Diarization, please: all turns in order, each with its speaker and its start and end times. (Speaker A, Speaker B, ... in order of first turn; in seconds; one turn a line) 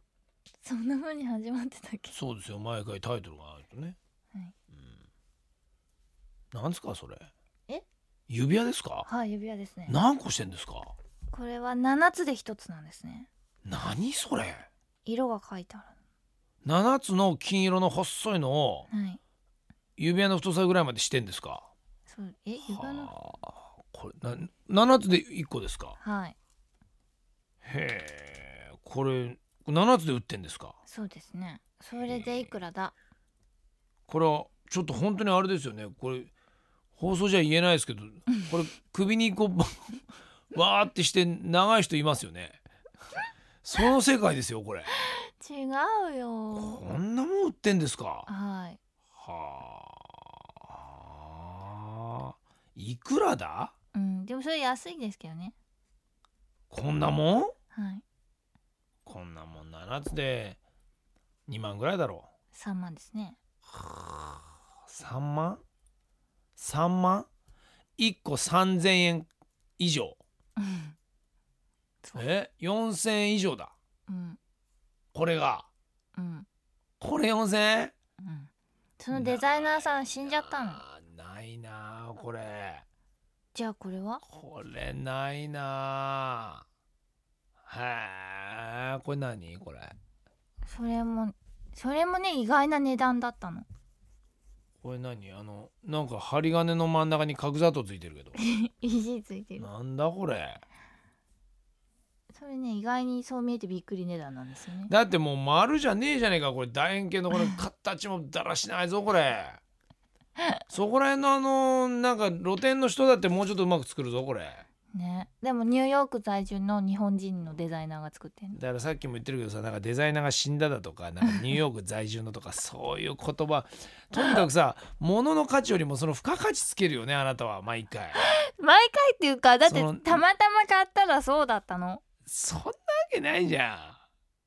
Speaker A: 0.6-2.2
Speaker B: 2.1-4.0
Speaker B: 6.5-7.3
Speaker B: 8.3-9.1
Speaker A: 9.1-10.0
Speaker B: 9.9-10.9
Speaker A: 11.3-13.3
Speaker B: 13.7-14.7
Speaker A: 15.1-15.9
Speaker B: 16.6-18.9
Speaker A: 18.9-19.2
Speaker B: 20.0-21.7
Speaker A: 22.1-23.1
Speaker B: 22.6-26.0
Speaker A: 26.0-26.4
Speaker B: 27.6-30.8
Speaker A: 30.9-33.0
Speaker B: 32.0-32.5
Speaker B: 34.1-36.3
Speaker B: 37.0-40.0
Speaker B: 40.5-42.6
Speaker B: 43.6-44.9
Speaker A: 44.9-46.9
Speaker B: 46.5-48.3
Speaker A: 48.3-48.8
Speaker B: 49.2-53.7
Speaker A: 53.9-55.5
Speaker B: 56.7-57.5
Speaker A: 57.7-58.0
Speaker B: 59.0-60.6
Speaker B: 61.5-62.3
Speaker A: 62.5-63.4
Speaker B: 63.7-65.6
Speaker B: 66.6-67.3
Speaker B: 68.0-69.3
Speaker B: 69.8-70.2
Speaker A: 70.6-71.0
Speaker B: 72.2-73.7
Speaker A: 74.1-74.4
Speaker B: 75.1-75.7
Speaker A: 76.2-76.5
Speaker B: 77.0-77.9
Speaker A: 78.2-80.8
Speaker B: 79.1-82.8
Speaker A: 83.5-84.2
Speaker B: 84.2-86.7
Speaker B: 87.7-90.0
Speaker A: 90.7-93.7
Speaker B: 94.8-98.4
Speaker A: 98.3-99.7
Speaker B: 99.6-100.6
Speaker A: 102.3-104.9
Speaker B: 104.9-109.6
Speaker A: 107.3-107.6
Speaker B: 110.7-114.7
Speaker A: 114.9-118.6
Speaker B: 118.5-128.2
Speaker A: 128.2-132.0
Speaker B: 129.7-130.2
Speaker B: 132.3-134.0